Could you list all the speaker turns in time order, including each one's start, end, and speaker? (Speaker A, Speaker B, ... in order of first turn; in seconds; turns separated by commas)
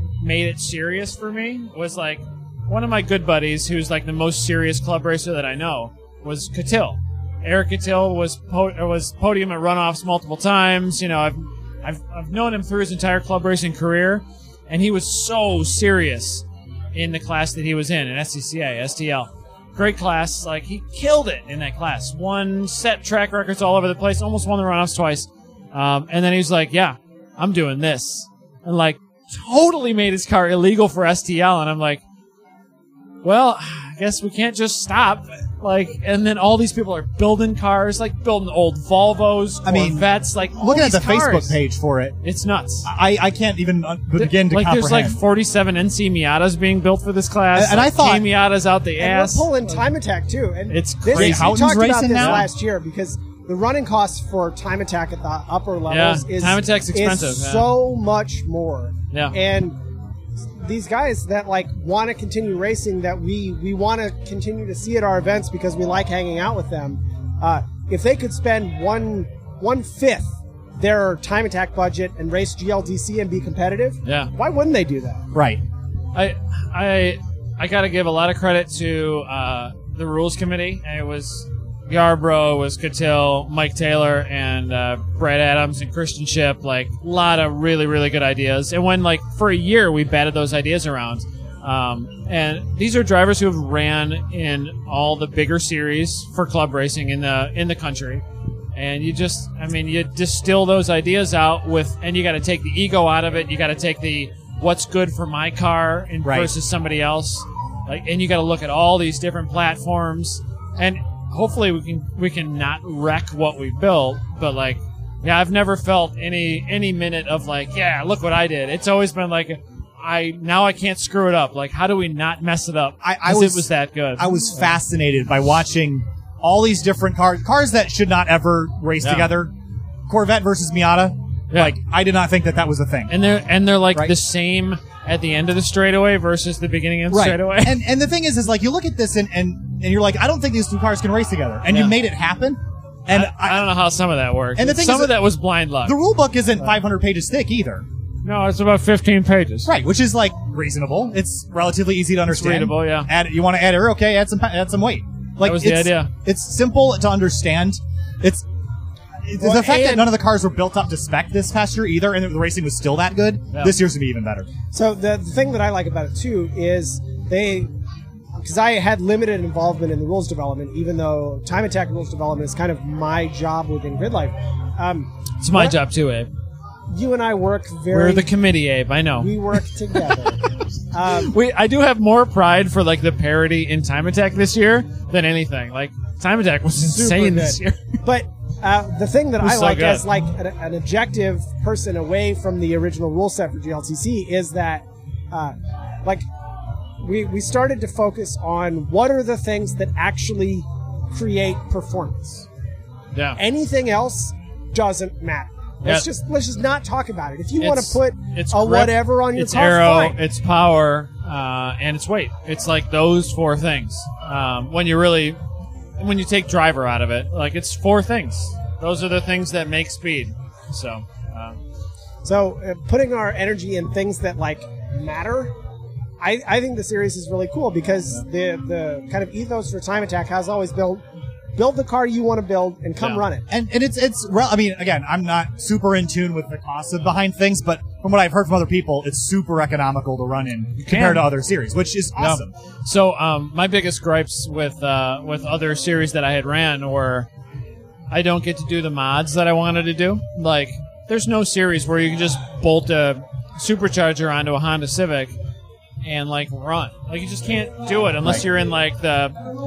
Speaker A: 0.2-32.0, Speaker A: 33.2-41.6, Speaker B: 39.6-40.0, Speaker B: 40.5-42.1, Speaker A: 42.2-42.9, Speaker B: 42.8-45.2, Speaker A: 44.1-49.6, Speaker B: 47.5-48.2, Speaker C: 49.0-59.8, Speaker A: 50.7-52.5, Speaker B: 51.1-52.4, Speaker A: 55.9-57.7, Speaker C: 60.4-75.3, Speaker A: 74.0-74.3, Speaker B: 75.3-75.6, Speaker A: 76.1-98.2, Speaker A: 98.7-124.7, Speaker B: 106.2-106.5, Speaker B: 123.0-129.5, Speaker A: 129.0-129.3, Speaker B: 130.1-133.1, Speaker A: 133.1-137.8, Speaker B: 137.1-143.7, Speaker A: 141.7-141.9, Speaker A: 143.1-146.0, Speaker B: 144.6-145.2, Speaker B: 145.8-147.8, Speaker A: 148.2-149.7, Speaker B: 149.7-158.4, Speaker A: 152.2-153.1, Speaker A: 155.4-156.1, Speaker B: 159.2-164.5, Speaker C: 159.4-160.1, Speaker C: 164.7-167.7, Speaker C: 168.3-175.8, Speaker A: 175.4-176.3, Speaker C: 176.9-178.3, Speaker A: 177.9-180.2, Speaker C: 179.2-180.4, Speaker C: 180.9-181.4, Speaker A: 181.0-187.8, Speaker C: 186.8-196.2, Speaker A: 189.4-190.0, Speaker C: 197.0-202.5, Speaker C: 203.3-210.2, Speaker A: 207.6-215.4, Speaker A: 216.0-221.6, Speaker C: 222.2-225.5, Speaker C: 226.2-231.0, Speaker C: 231.6-233.5, Speaker B: 233.5-242.5, Speaker A: 240.8-241.3, Speaker A: 242.2-247.3, Speaker A: 248.1-255.3, Speaker A: 256.0-259.4